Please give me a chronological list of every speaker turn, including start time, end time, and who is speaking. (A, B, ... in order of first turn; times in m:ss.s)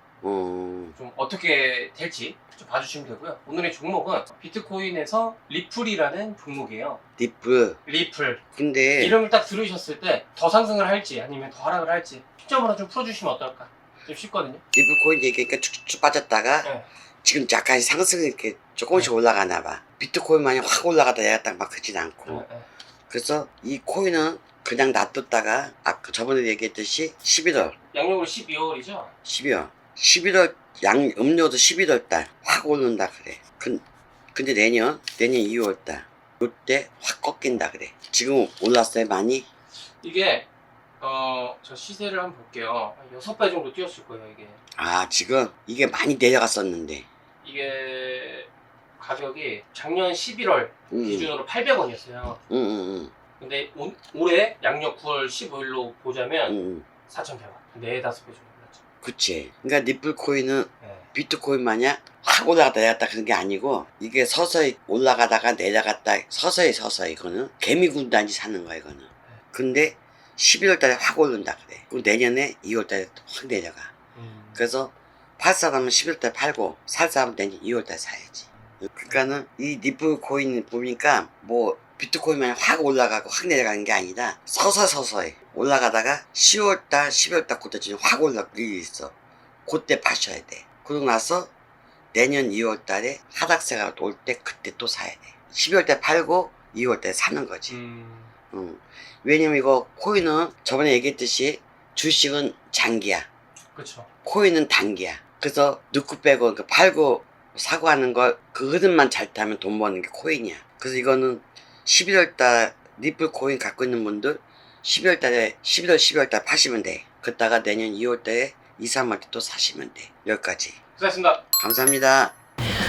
0:00.2-0:01.0 A
0:01.0-0:07.0 B
0:07.2-0:07.8 A
0:07.8-0:08.4 B
0:08.5-0:09.2 A
0:09.0-0:14.6 B
0:14.7-0:16.7 A
0:17.2-0:22.4 A
0:22.2-0:22.7 B
0:23.1-0:27.8 A
0:27.9-0:29.1 B
0:29.2-0:33.8 A
0:34.3-0:39.4 A
0:40.0-0:40.5 B
0:41.0-0:44.6 B
0:44.8-0:47.0 A
0:47.4-0:52.4 B
0:50.9-0:51.3 A
0:52.5-0:53.1 A
0:53.4-0:56.6 B
0:56.5-0:56.8 A
0:57.1-0:58.8 B
0:59.0-1:13.9 A
1:00.8-1:01.1 B
1:14.1-1:14.6 B
1:14.6-1:29.1 A
1:29.6-1:31.5 A
1:32.1-1:37.8 A
1:37.7-1:38.3 B
1:38.5-1:43.3 A
1:43.7-1:44.1 B
1:44.2-2:00.8 A
2:01.0-2:01.4 B
2:01.6-2:02.4 A